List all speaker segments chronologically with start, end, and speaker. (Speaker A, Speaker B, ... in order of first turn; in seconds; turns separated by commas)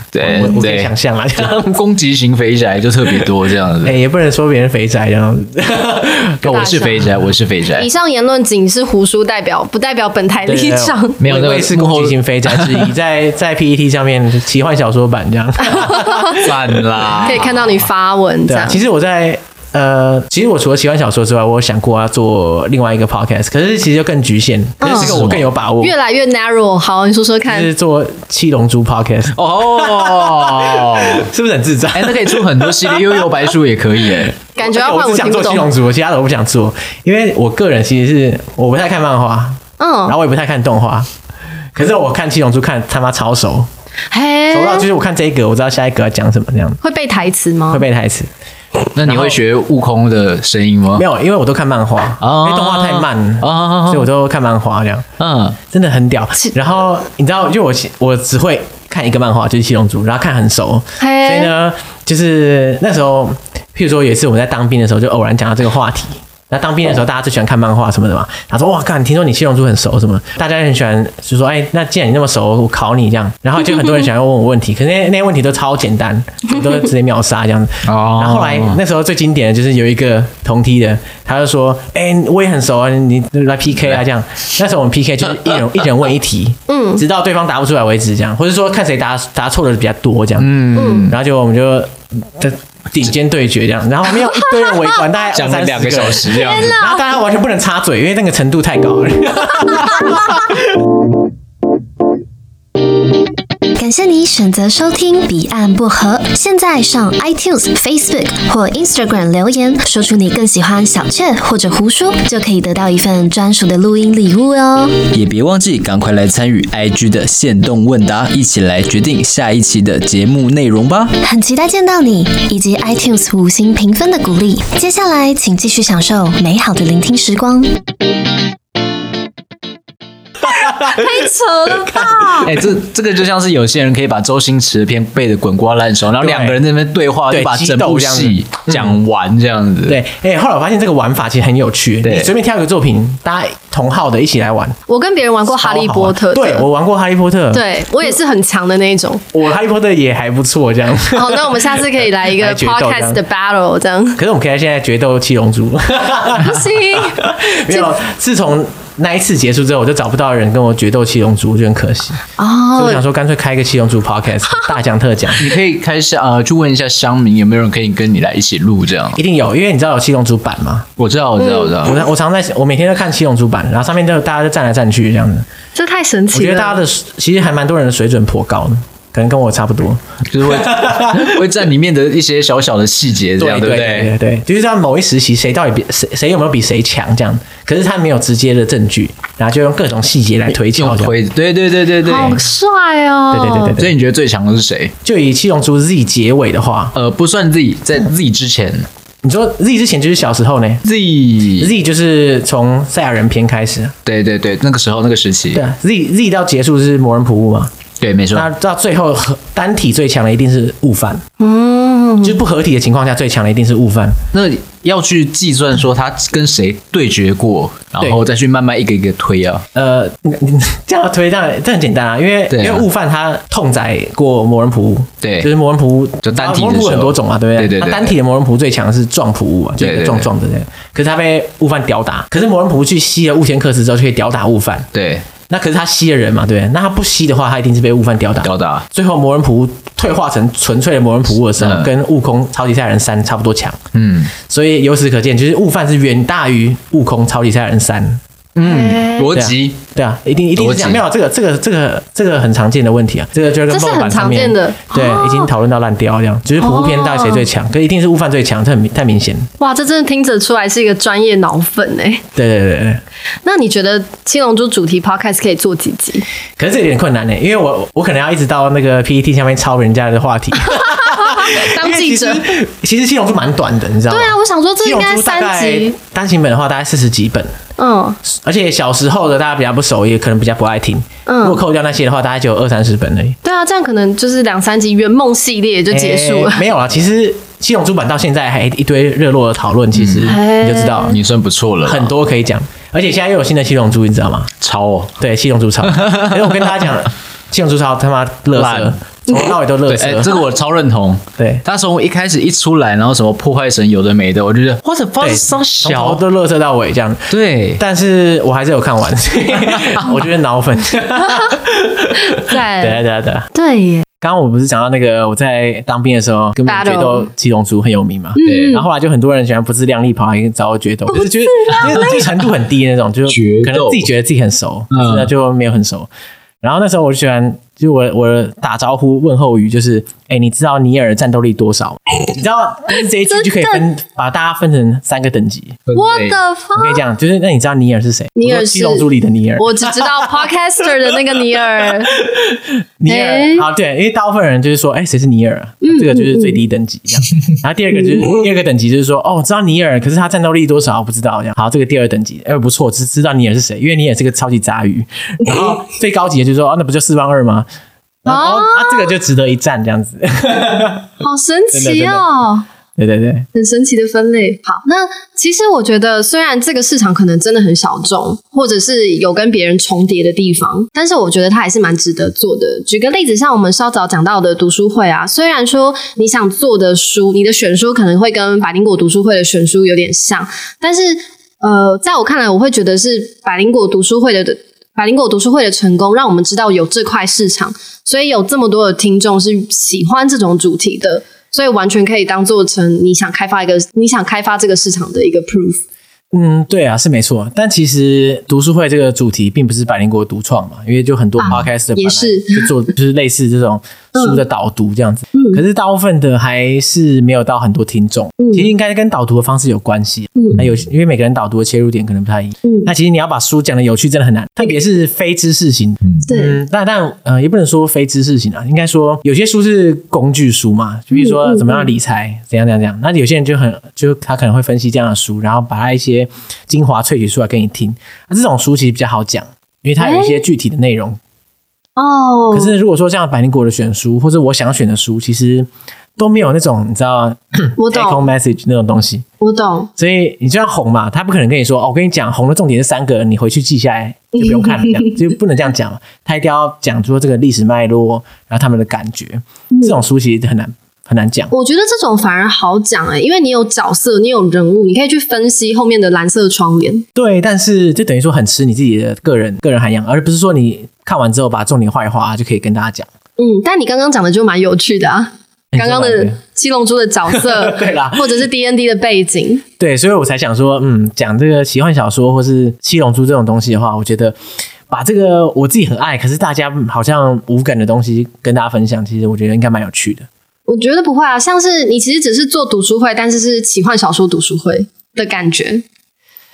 Speaker A: 0.1-0.9, Speaker B: 0.2-1.8, Speaker A: 1.5-4.0, Speaker B: 3.8-7.1, Speaker A: 6.4-7.9, Speaker C: 6.4-7.1, Speaker C: 7.8-11.2, Speaker B: 10.4-17.0, Speaker A: 11.2-12.9, Speaker C: 15.6-16.4, Speaker A: 16.3-17.9, Speaker C: 17.2-18.8, Speaker B: 18.5-25.9, Speaker C: 24.8-25.1, Speaker A: 24.8-25.5, Speaker C: 25.8-27.7, Speaker B: 27.5-33.4, Speaker A: 29.3-31.3, Speaker A: 31.9-34.3, Speaker B: 34.2-41.1, Speaker C: 34.6-35.7, Speaker C: 39.8-40.2, Speaker B: 41.7-43.7, Speaker C: 44.1-44.9, Speaker B: 44.5-46.8, Speaker C: 46.8-47.8, Speaker B: 47.7-48.3, Speaker A: 48.9-51.0, Speaker B: 49.0-49.4, Speaker B: 50.9-55.1, Speaker A: 52.2-54.1, Speaker A: 55.2-55.6, Speaker B: 55.7-100.6, Speaker C: 61.0-61.5, Speaker A: 77.8-78.8, Speaker C: 86.7-87.0, Speaker A: 90.4-91.2, Speaker C: 90.7-91.1, Speaker C: 94.3-94.9, Speaker A: 95.3-96.8, Speaker C: 96.3-97.0, Speaker D: 103.8-115.1, Speaker E: 115.1-121.2, Speaker D: 121.2-127.7, Speaker B: 130.6-131.0, Speaker C: 130.6-132.5, Speaker B: 131.8-132.3, Speaker A: 132.4-140.0, Speaker B: 136.2-136.6, Speaker B: 137.3-139.0, Speaker B: 139.9-144.8, Speaker A: 142.0-142.3, Speaker C: 144.9-146.7, Speaker B: 145.5-147.6, Speaker C: 147.5-149.2, Speaker B: 149.3-153.2, Speaker C: 151.1-154.2, Speaker B: 154.2-162.2, Speaker C: 156.4-157.9, Speaker C: 162.4-163.0, Speaker B: 162.7-165.5, Speaker A: 165.4-169.2, Speaker B: 169.1-170.9, Speaker A: 171.0-172.0, Speaker C: 171.4-171.7, Speaker B: 171.8-175.5, Speaker C: 175.7-176.8, Speaker B: 176.3-181.4, Speaker A: 180.3-184.1, Speaker B: 183.4-191.1, Speaker A: 190.7-192.4, Speaker C: 192.0-193.8, Speaker B: 193.3-193.9, Speaker A: 193.7-194.9, Speaker B: 195.0-196.9, Speaker A: 196.9-198.9, Speaker B: 199.2-200.8, Speaker A: 200.8-201.7, Speaker B: 201.6-203.9, Speaker A: 204.0-205.6, Speaker B: 205.5-207.7, Speaker A: 208.0-208.5, Speaker B: 208.3-211.2, Speaker C: 211.4-212.4, Speaker B: 212.2-214.2, Speaker A: 214.3-219.7, Speaker B: 219.7-234.9, Speaker A: 222.5-222.8, Speaker A: 225.2-225.5, Speaker A: 226.2-228.1, Speaker A: 229.8-230.3, Speaker A: 234.9-235.2, Speaker B: 235.5-243.8, Speaker A: 238.4-238.8, Speaker A: 241.6-241.9, Speaker A: 243.9-244.3, Speaker B: 244.4-248.2, Speaker A: 248.6-249.8, Speaker C: 248.6-249.3, Speaker B: 249.3-259.5, Speaker A: 250.6-251.0, Speaker C: 253.7-255.5, Speaker C: 256.6-257.4, Speaker C: 259.6-262.2, Speaker B: 262.3-263.0, Speaker C: 263.4-266.2, Speaker B: 266.6-277.5, Speaker C: 270.6-272.5, Speaker C: 274.1-275.9, Speaker C: 277.8-278.2, Speaker B: 278.2-283.4, Speaker C: 281.2-281.6, Speaker C: 283.4-286.6, Speaker B: 285.9-291.2, Speaker A: 289.9-290.4, Speaker C: 290.2-291.2, Speaker A: 291.1-292.1, Speaker B: 291.8-294.5, Speaker A: 294.6-295.1, Speaker B: 295.2-300.3, Speaker A: 298.6-298.9, Speaker A: 299.9-306.2, Speaker B: 301.4-301.6, Speaker B: 305.2-313.5, Speaker A: 307.3-307.8, Speaker A: 309.7-310.1, Speaker C: 312.3-313.0, Speaker C: 313.5-314.1, Speaker B: 314.2-326.1, Speaker C: 316.7-317.3, Speaker C: 318.4-318.8, Speaker A: 318.4-318.8, Speaker C: 321.1-322.2, Speaker A: 321.8-322.1, Speaker A: 323.3-324.1, Speaker A: 324.9-325.3, Speaker B: 326.6-335.8, Speaker C: 333.3-333.8, Speaker A: 335.9-336.4, Speaker C: 335.9-337.0, Speaker B: 336.7-340.5, Speaker C: 338.4-339.1, Speaker C: 339.6-342.1, Speaker B: 341.1-357.7, Speaker C: 343.1-343.7, Speaker C: 345.8-346.6, Speaker B: 358.2-361.1, Speaker C: 358.3-359.1, Speaker C: 361.2-362.6, Speaker B: 361.7-362.2, Speaker B: 363.0-363.5, Speaker C: 363.5-395.8, Speaker B: 396.3-431.2, Speaker C: 401.4-402.7, Speaker C: 404.1-404.4, Speaker C: 405.3-405.6, Speaker C: 408.4-408.7, Speaker C: 412.6-412.9, Speaker C: 416.3-416.6, Speaker C: 421.1-421.9, Speaker C: 430.0-430.4, Speaker C: 431.9-432.7, Speaker B: 432.5-439.2, Speaker C: 437.8-438.2, Speaker C: 439.4-439.9, Speaker B: 440.0-451.5, Speaker C: 444.4-445.2, Speaker C: 449.7-450.0, Speaker C: 451.5-457.0, Speaker B: 457.1-463.1, Speaker C: 463.4-469.6, Speaker B: 465.7-466.4, Speaker B: 467.3-468.3, Speaker B: 469.8-474.4, Speaker B: 474.9-480.3, Speaker C: 480.7-485.8